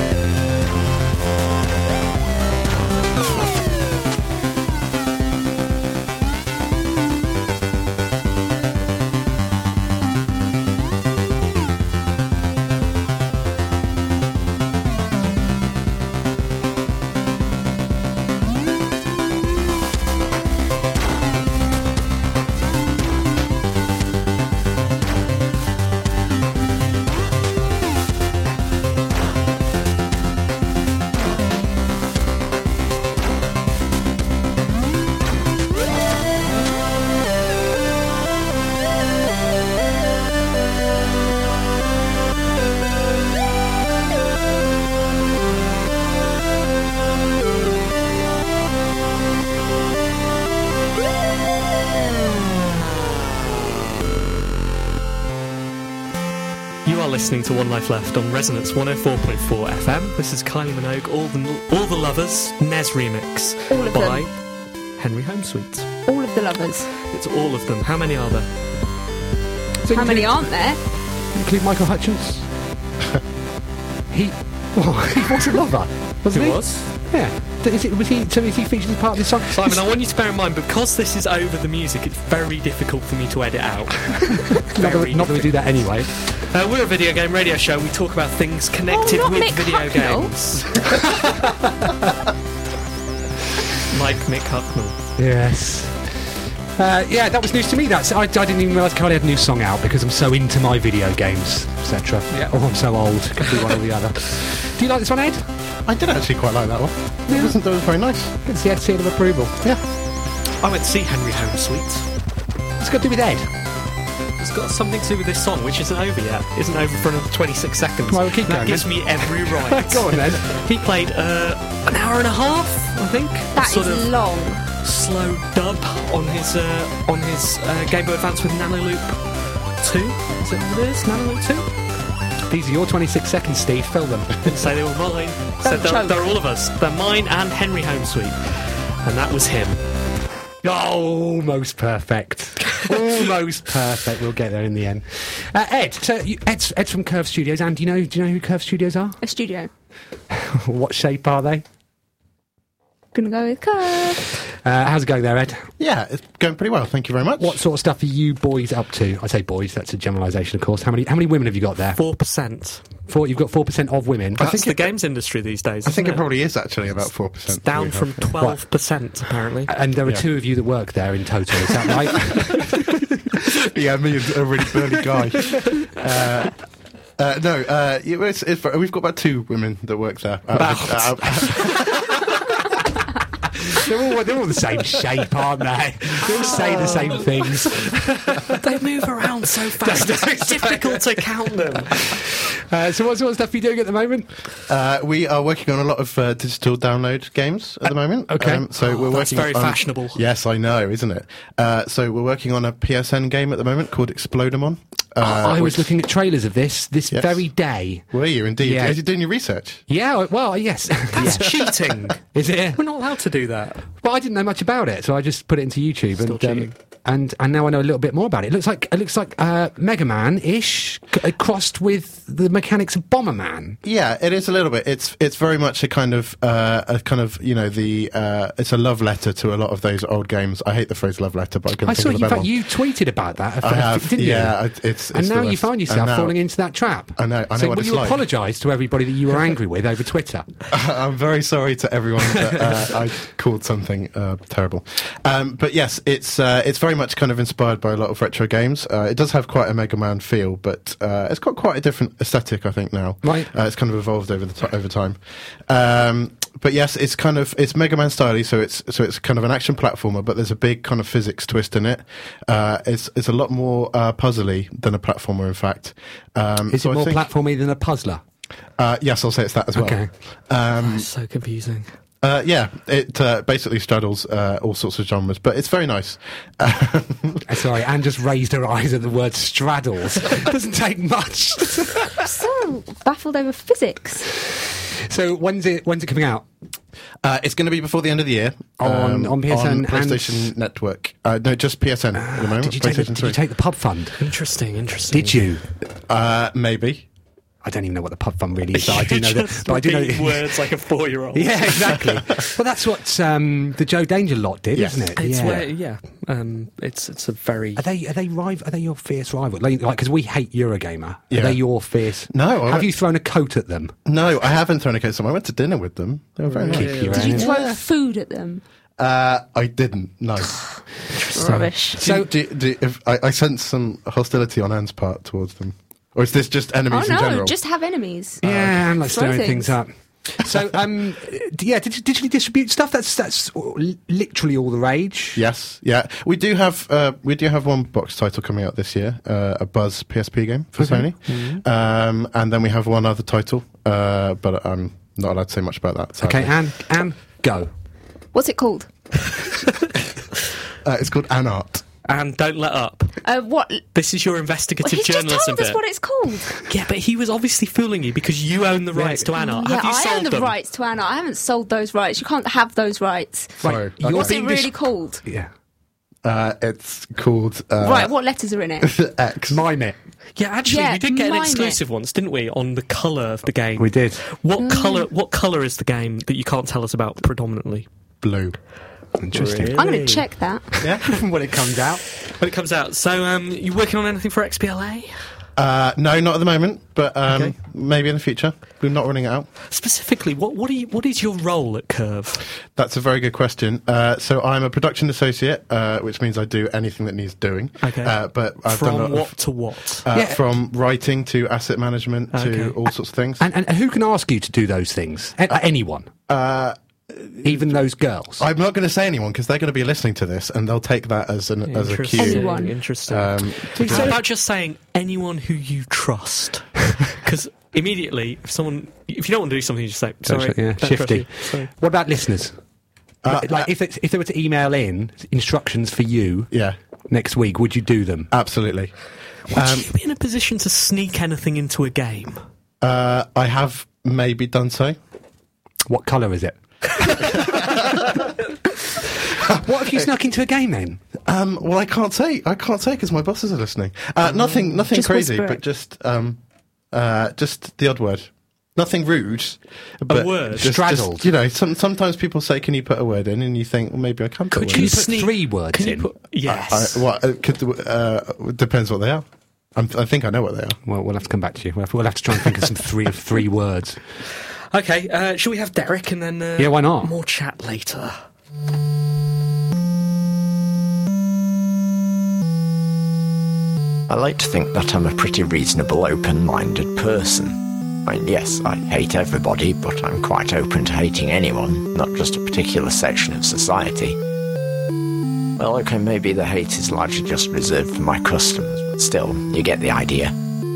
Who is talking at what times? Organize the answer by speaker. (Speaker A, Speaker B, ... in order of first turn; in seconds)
Speaker A: 56.9-64.3, 65.0-65.9, 67.0-68.5, 76.3-76.9, 79.5-90.9, 93.9-95.0, 102.3-102.5, 110.6-112.1, 114.4-124.1, 124.8-129.2, 129.8-131.7, 134.4-139.8, 162.0-162.8, 164.4-166.2, 167.5-169.7, 186.3-187.2, 188.2-192.1, 198.8-200.2, 211.1-212.2, 212.7-213.9, 216.2-216.8, 270.8-271.9, 294.2-295.4, 298.7-302.4, 305.2-307.9, 316.5-317.4, 341.3-341.6, 352.1-353.2, 353.9-355.8, 356.7-360.5, 370.4-377.9, 379.3-380.1, 382.2-385.2, 387.3-387.5, 389.7-392.4, 397.8-400.1, 402.3-402.8, 411.6-421.7, 429.5-432.4, 450.1-450.7, 454.5-457.0, 464.7-468.2
Speaker B: 63.7-64.3, 66.1-66.9, 69.9-70.8, 88.9-90.3, 123.5-124.6, 135.6-136.2, 149.2-149.7, 153.1-154.3, 282.2-284.3, 317.1-318.6, 321.3-322.0, 326.9-328.4, 329.0-329.8, 348.3-348.9, 353.2-353.9, 354.8-356.6, 359.4-365.2, 367.8-368.9, 370.6-371.8, 374.6-375.1, 379.7-380.8, 412.2-412.8, 444.9-445.6
Speaker C: 69.8-70.4, 71.3-72.5, 74.1-79.8, 84.7-86.1, 90.9-91.9, 95.2-105.5, 107.3-107.6, 108.4-109.7, 112.8-113.5, 118.1-120.5, 132.5-134.6, 140.6-149.2, 150.3-151.7, 154.6-155.7, 157.4-162.0, 163.1-164.5, 169.7-172.9, 180.6-181.9, 183.6-188.6, 189.8-194.3, 198.3-198.7, 205.2-209.0, 209.9-212.8, 214.0-223.8, 231.8-234.6, 235.1-240.5, 253.2-253.5, 266.7-268.2, 269.8-270.1, 277.5-282.3, 285.1-286.5, 288.8-290.5, 292.1-294.2, 295.1-295.6, 297.6-300.6, 301.3-305.7, 307.8-313.9, 316.7-317.5, 321.4-322.3, 328.4-335.4, 340.8-341.1, 346.2-347.7, 358.9-359.3, 363.6-364.7, 369.5-370.0, 373.8-374.2, 379.2-380.2, 380.8-382.0, 400.1-400.4, 403.4-406.1, 407.4-408.5, 413.8-414.2, 420.2-422.6, 423.2-426.5, 427.1-428.3, 435.9-437.9, 439.4-441.0, 450.6-451.3, 454.7-456.1, 460.9-464.0, 466.6-467.1
Speaker D: 105.9-108.3, 155.8-157.6, 164.4-164.9, 165.8-168.3, 173.7-176.6, 177.2-182.1, 194.7-205.9, 207.1-207.4, 208.1-209.8, 223.8-232.5, 233.6-236.4, 237.2-238.2, 240.7-267.2, 268.8-271.1, 272.2-277.4, 287.2-293.4, 296.1-297.1, 304.7-305.1, 311.3-311.8, 312.3-312.9, 314.1-317.8, 319.0-320.6, 322.0-327.5, 328.4-328.9, 335.4-346.5, 350.8-351.8, 363.6-364.4, 366.2-368.1, 368.8-369.6, 378.2-378.6, 380.8-381.2, 385.6-389.5, 392.8-399.4, 400.0-403.5, 406.3-407.8, 408.4-414.2, 423.2-423.7, 428.3-428.9, 429.5-429.9, 432.8-435.0, 437.3-438.2, 441.2-446.4, 446.9-455.1, 456.5-460.8
Speaker E: 474.1-484.2, 485.6-490.3